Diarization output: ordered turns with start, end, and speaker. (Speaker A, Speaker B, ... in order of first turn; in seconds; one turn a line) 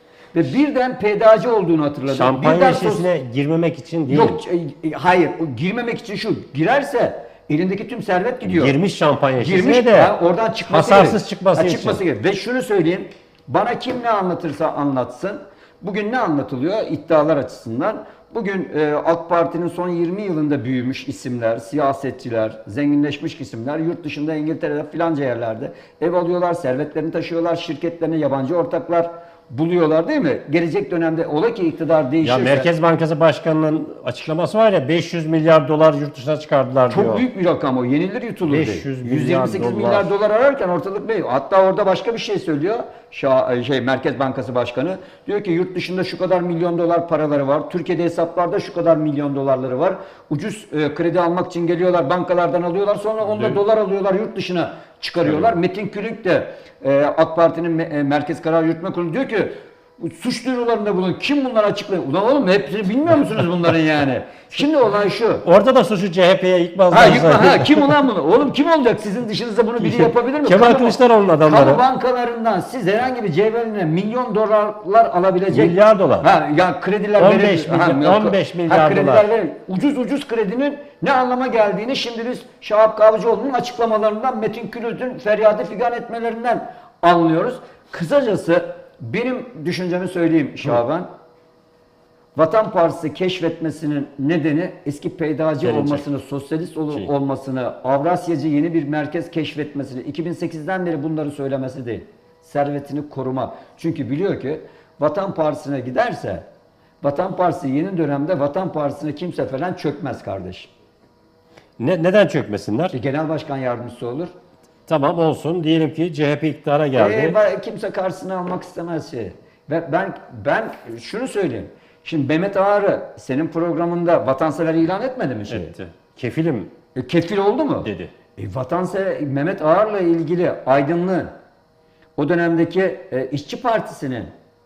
Speaker A: 0.3-3.1
Speaker B: 2.1-4.4
Speaker A: 4.1-8.8
Speaker B: 8.4-10.1
Speaker A: 9.4-32.7
Speaker B: 10.7-12.0
Speaker B: 32.2-37.2
Speaker A: 36.9-65.4
Speaker B: 38.4-40.1
Speaker B: 65.4-68.0
Speaker A: 66.9-91.1
Speaker B: 69.8-71.8
Speaker B: 75.5-76.3
Speaker B: 77.2-79.2
Speaker A: 92.3-106.4
Speaker B: 95.6-96.0
Speaker A: 107.0-110.7
Speaker B: 111.8-112.9
Speaker A: 112.9-114.3
Speaker B: 114.9-117.4
Speaker A: 116.9-125.7
Speaker B: 125.5-126.7
Speaker A: 126.9-131.3
Speaker B: 127.8-128.1
Speaker A: 132.2-134.3